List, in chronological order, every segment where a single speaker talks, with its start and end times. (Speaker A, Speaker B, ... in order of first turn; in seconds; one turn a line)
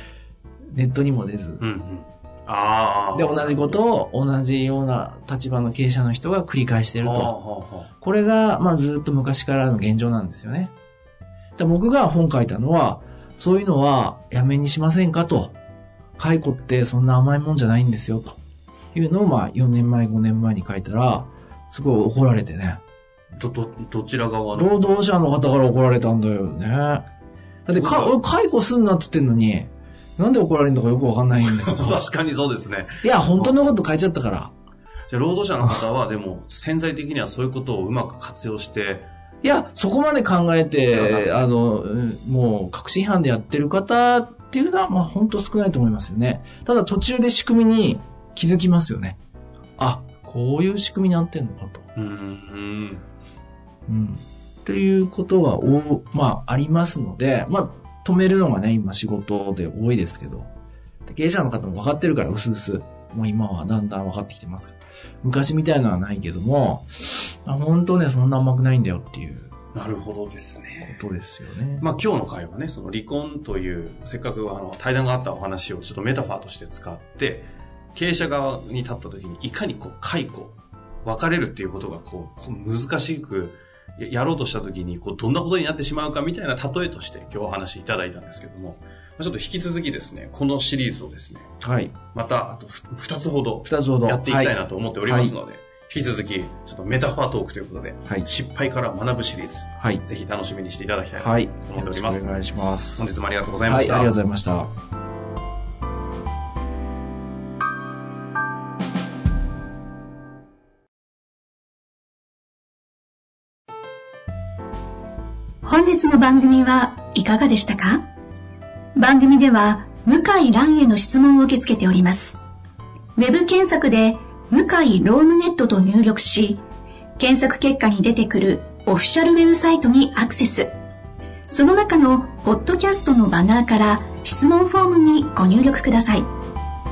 Speaker A: 0.7-1.6
Speaker B: 1.6-3.8
Speaker A: 3.1-7.3
Speaker B: 7.0-7.9
Speaker A: 8.0-10.7
Speaker A: 11.6-15.5
Speaker A: 16.2-18.4
Speaker A: 18.9-22.8
Speaker B: 23.4-24.9
Speaker A: 24.5-27.1
Speaker A: 27.7-32.0
Speaker B: 27.7-28.2
Speaker B: 31.4-33.7
Speaker A: 33.0-34.5
Speaker B: 35.1-39.1
Speaker A: 39.4-49.2
Speaker B: 40.9-41.4
Speaker A: 49.8-51.9
Speaker B: 52.0-53.0
Speaker A: 53.9-60.5
Speaker A: 61.1-69.5
Speaker B: 69.7-71.0
Speaker A: 70.8-71.8
Speaker B: 71.8-91.5
Speaker A: 91.6-92.0
Speaker B: 92.1-102.3
Speaker A: 93.7-94.5
Speaker A: 95.1-95.3
Speaker A: 99.8-100.0
Speaker A: 101.2-103.1
Speaker B: 103.0-104.2
Speaker A: 103.7-104.7
Speaker C: 115.6-118.0
Speaker C: 119.0-122.4
Speaker C: 123.2-126.6
Speaker C: 127.2-130.7
Speaker C: 131.5-136.3